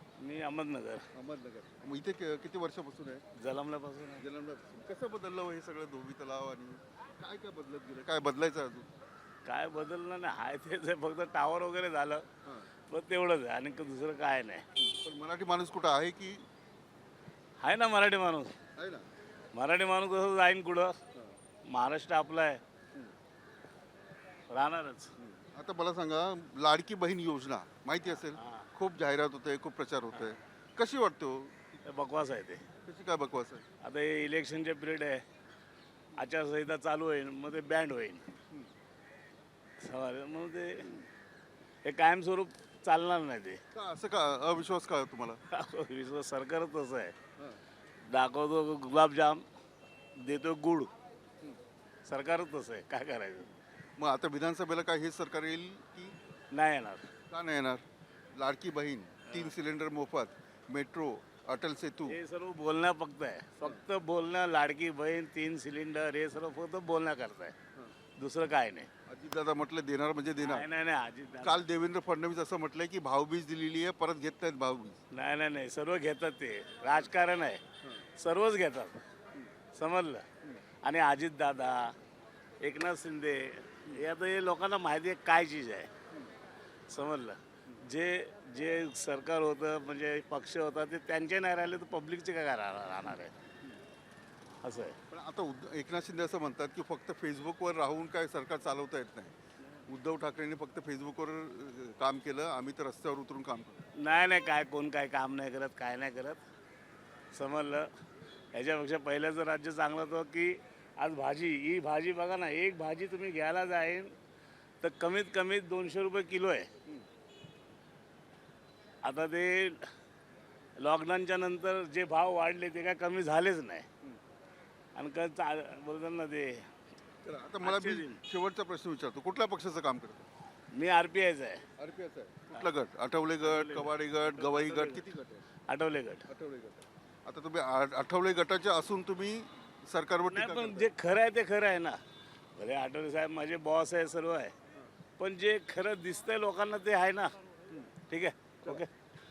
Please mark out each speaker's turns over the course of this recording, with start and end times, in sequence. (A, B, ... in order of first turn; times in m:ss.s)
0:00.2-0:01.0 A
0:01.2-0:03.2 B
0:03.4-0:04.2 A
0:04.2-0:08.9 B
0:09.4-0:12.3 A
0:12.4-0:12.7 B
0:12.9-0:14.6 A
0:14.8-0:16.4 B
0:17.6-0:18.6 A
0:18.8-0:19.1 B
0:19.5-0:21.0 A
0:21.7-0:22.6 A
0:24.5-0:25.1 A
0:25.2-0:31.6 B
0:28.2-0:28.7 A
0:31.9-0:32.7 A
0:32.8-0:33.6 B
0:33.8-0:35.2 A
0:36.2-0:38.2 A
0:39.8-0:40.9 A
0:41.8-0:43.6 A
0:43.7-0:45.4 B
0:45.5-0:47.1 A
0:48.1-0:49.4 A
0:50.2-0:50.9 A
0:52.1-0:53.5 A
0:54.0-0:56.2 B
0:56.5-0:57.1 A
0:57.3-0:57.8 B
0:58.4-1:02.2 B
1:02.1-1:07.6 A
1:08.2-1:08.9 A
1:09.1-1:10.7 B
1:10.4-1:11.6 A
1:11.4-1:15.0 B
1:15.1-1:17.6 A
1:18.2-1:19.0 A
1:19.8-1:20.2 A
1:20.8-1:22.0 A
1:22.6-1:25.9 A
1:26.9-1:33.3 A
1:34.6-1:35.0 A
1:35.1-1:39.4 B
1:39.9-1:43.9 B
1:44.0-1:46.4 A
1:47.3-1:47.9 A
1:48.5-1:54.1 A
1:54.8-1:56.7 A
1:59.0-1:59.8 A
2:00.8-2:03.9 A
2:05.0-2:06.6 A
2:07.2-2:10.3 B
2:07.6-2:08.2 A
2:10.7-2:11.6 A
2:11.8-2:15.4 B
2:13.4-2:15.0 A
2:15.7-2:16.3 A
2:16.3-2:20.9 B
2:20.3-2:22.0 A
2:22.6-2:24.5 A
2:25.2-2:27.4 A
2:28.1-2:28.9 A